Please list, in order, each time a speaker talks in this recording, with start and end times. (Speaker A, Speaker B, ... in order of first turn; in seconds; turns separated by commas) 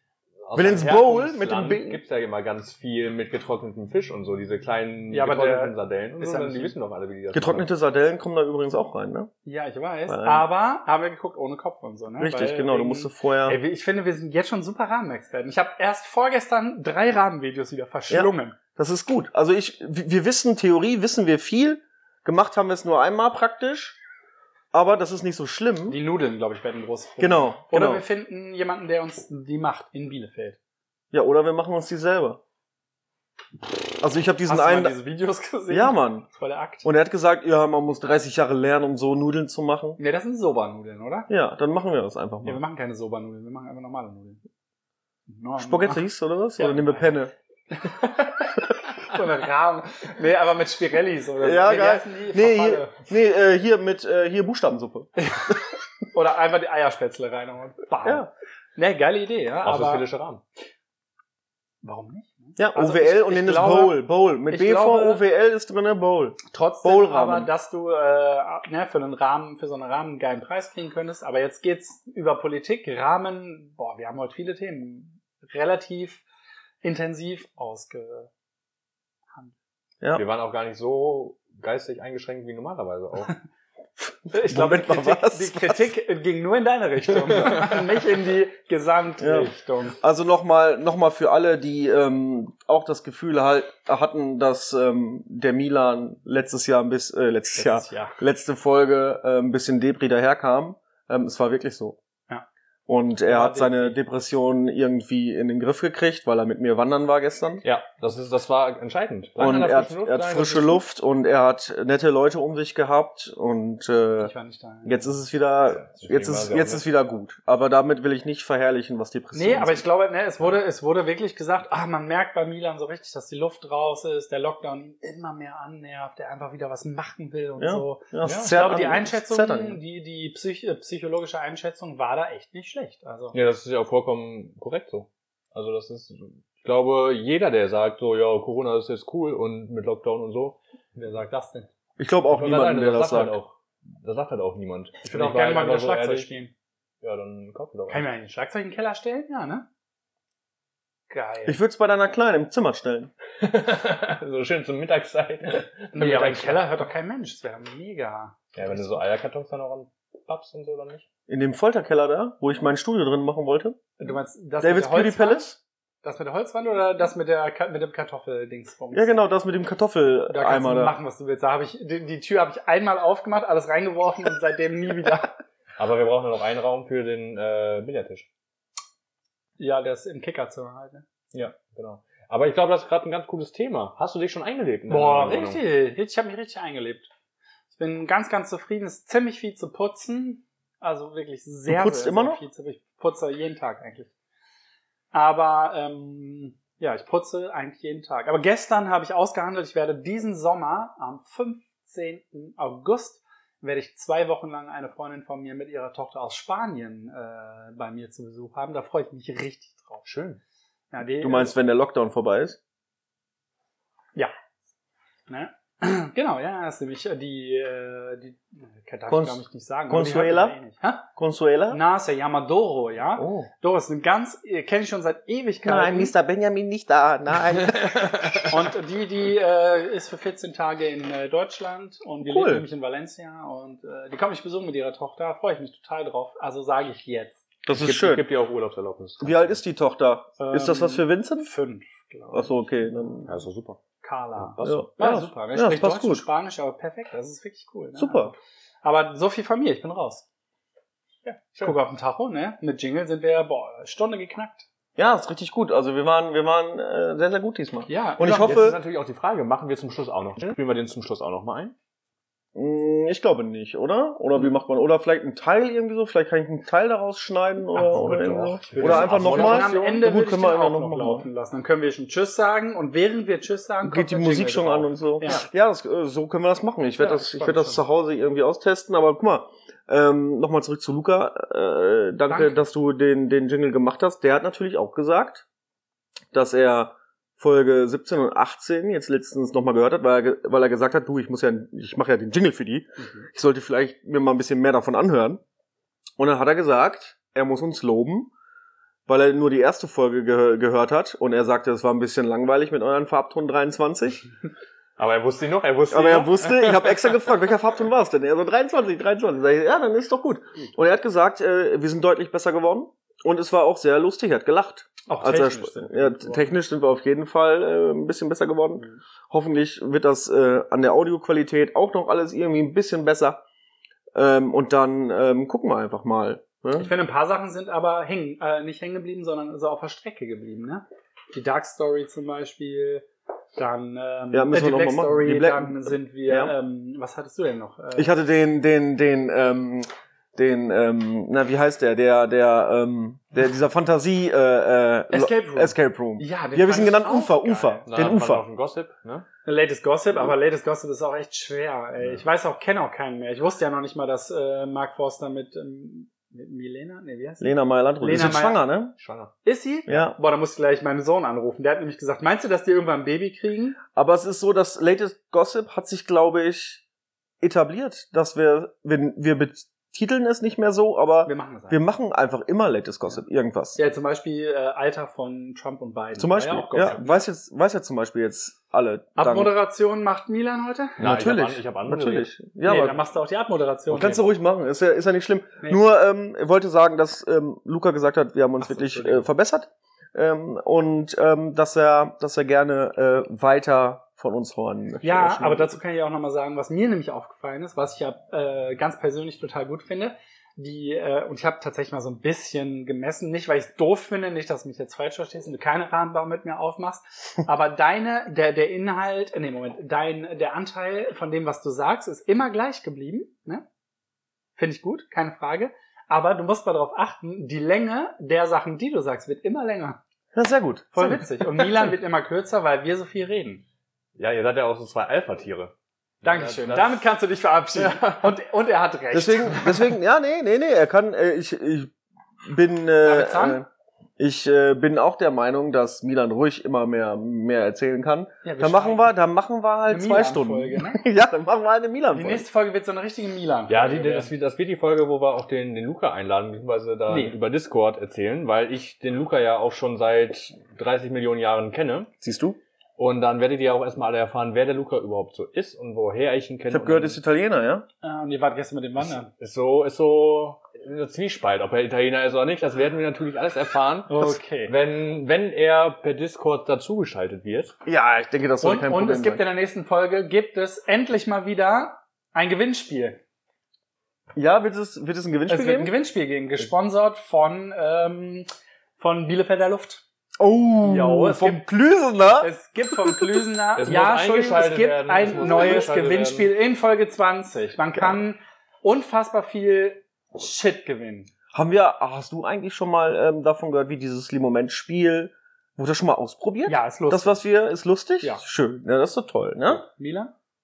Speaker A: 0.4-7.7, Speaker B: 0.6-2.0, Speaker C: 5.1-6.7, Speaker B: 7.3-9.3, Speaker C: 9.4-18.6, Speaker B: 10.1-10.5, Speaker B: 12.2-13.6, Speaker B: 18.1-24.0, Speaker B: 24.7-26.0, Speaker C: 25.9-30.6, Speaker B: 27.2-28.0, Speaker B: 31.1-32.4, Speaker B: 34.0-34.9, Speaker C: 34.5-36.9, Speaker B: 35.7-36.3, Speaker B: 36.8-40.0, Speaker C: 40.0-41.3, Speaker B: 41.3-42.6, Speaker C: 42.4-44.4, Speaker C: 45.3-46.0, Speaker B: 45.6-47.3, Speaker C: 46.6-47.1, Speaker C: 47.7-53.0, Speaker B: 51.4-55.1, Speaker C: 55.2-60.1, Speaker A: 59.6-60.4, Speaker C: 61.8-65.2, Speaker B: 62.6-67.5, Speaker C: 66.5-76.2, Speaker C: 76.8-78.3, Speaker A: 80.2-83.3, Speaker B: 84.3-85.9, Speaker C: 84.3-90.0, Speaker A: 87.4-87.8, Speaker B: 89.2-102.0, Speaker C: 97.5-98.2, Speaker B: 102.9-107.6, Speaker C: 103.2-104.0, Speaker A: 107.6-110.8, Speaker B: 109.4-114.3, Speaker C: 114.2-115.1, Speaker B: 114.8-119.8, Speaker A: 115.7-116.8, Speaker C: 119.3-133.4, Speaker B: 127.6-129.8, Speaker A: 128.2-128.6, Speaker A: 133.3-140.6, Speaker C: 140.9-141.7, Speaker B: 142.0-143.4, Speaker A: 142.3-146.3, Speaker C: 145.1-146.5, Speaker A: 147.0-148.1, Speaker C: 147.9-149.7, Speaker C: 151.1-151.6, Speaker B: 151.5-153.1, Speaker A: 153.4-156.8, Speaker C: 155.9-159.0, Speaker A: 158.6-161.1, Speaker B: 161.3-163.8, Speaker C: 164.0-165.5, Speaker B: 164.6-165.6, Speaker C: 166.0-169.1, Speaker B: 168.9-171.0, Speaker C: 170.3-175.4, Speaker A: 175.8-178.3, Speaker C: 179.6-181.0, Speaker A: 181.3-185.6, Speaker C: 184.9-187.1, Speaker C: 187.7-194.1, Speaker B: 191.7-192.4, Speaker C: 195.1-210.1, Speaker A: 210.1-210.4, Speaker C: 210.9-211.6, Speaker B: 211.2-212.6, Speaker C: 215.3-221.1, Speaker B: 219.1-220.6, Speaker B: 221.2-221.8, Speaker C: 221.7-226.1, Speaker B: 223.2-223.5, Speaker B: 225.6-227.8, Speaker A: 227.7-228.5, Speaker C: 228.5-237.4, Speaker B: 232.2-232.7, Speaker B: 237.7-238.2, Speaker A: 237.7-239.6, Speaker B: 239.2-241.5, Speaker C: 240.4-243.3, Speaker B: 242.3-243.3, Speaker A: 243.3-243.8, Speaker C: 244.0-250.2, Speaker A: 244.4-244.8, Speaker B: 244.6-246.2, Speaker B: 248.0-248.3, Speaker A: 251.3-251.8, Speaker C: 251.6-254.7, Speaker B: 255.0-258.8, Speaker C: 257.9-258.7, Speaker A: 258.3-261.8, Speaker B: 262.6-271.3, Speaker C: 267.7-275.4, Speaker A: 267.9-270.1, Speaker B: 273.9-285.4, Speaker C: 277.0-277.8, Speaker C: 282.3-282.6, Speaker B: 286.3-295.4, Speaker C: 293.0-293.3, Speaker B: 296.2-298.3, Speaker B: 299.1-304.3, Speaker A: 305.0-307.2, Speaker B: 305.9-323.4, Speaker C: 315.1-316.5, Speaker B: 324.1-326.9, Speaker C: 326.8-333.1, Speaker C: 333.6-338.1, Speaker B: 334.3-336.5, Speaker B: 337.9-348.4, Speaker C: 345.1-347.9, Speaker A: 347.9-349.3, Speaker C: 349.4-358.6, Speaker B: 357.4-358.9, Speaker A: 359.0-359.3, Speaker C: 359.4-363.8, Speaker B: 359.9-360.2, Speaker B: 363.9-366.9, Speaker B: 367.4-373.8, Speaker C: 371.2-371.8, Speaker C: 373.8-377.2, Speaker B: 376.2-379.6, Speaker C: 379.2-381.0, Speaker A: 381.0-382.3, Speaker B: 381.0-383.0, Speaker C: 382.6-384.2, Speaker B: 383.9-395.8, Speaker A: 388.6-389.2, Speaker C: 395.0-413.6, Speaker C: 414.6-420.0, Speaker B: 420.3-421.9, Speaker C: 420.9-423.6, Speaker A: 424.2-427.0, Speaker C: 426.2-429.7, Speaker A: 427.8-428.3, Speaker B: 429.1-431.9, Speaker B: 432.5-433.7, Speaker C: 433.0-433.6, Speaker B: 434.2-442.4, Speaker C: 438.4-439.1, Speaker C: 439.9-441.0, Speaker C: 442.1-444.3, Speaker A: 443.7-452.1, Speaker C: 447.1-447.4, Speaker B: 452.2-452.6, Speaker A: 453.0-457.2, Speaker B: 456.7-457.9, Speaker C: 458.0-459.3, Speaker A: 459.4-467.8, Speaker C: 464.1-464.7, Speaker B: 467.9-469.4, Speaker C: 468.6-473.2, Speaker B: 474.4-475.9, Speaker C: 475.5-480.0, Speaker B: 480.4-483.4, Speaker C: 480.8-481.6, Speaker C: 482.4-491.3, Speaker A: 483.8-486.5, Speaker B: 485.4-485.9, Speaker B: 491.5-499.9, Speaker C: 496.7-497.4, Speaker C: 499.7-500.3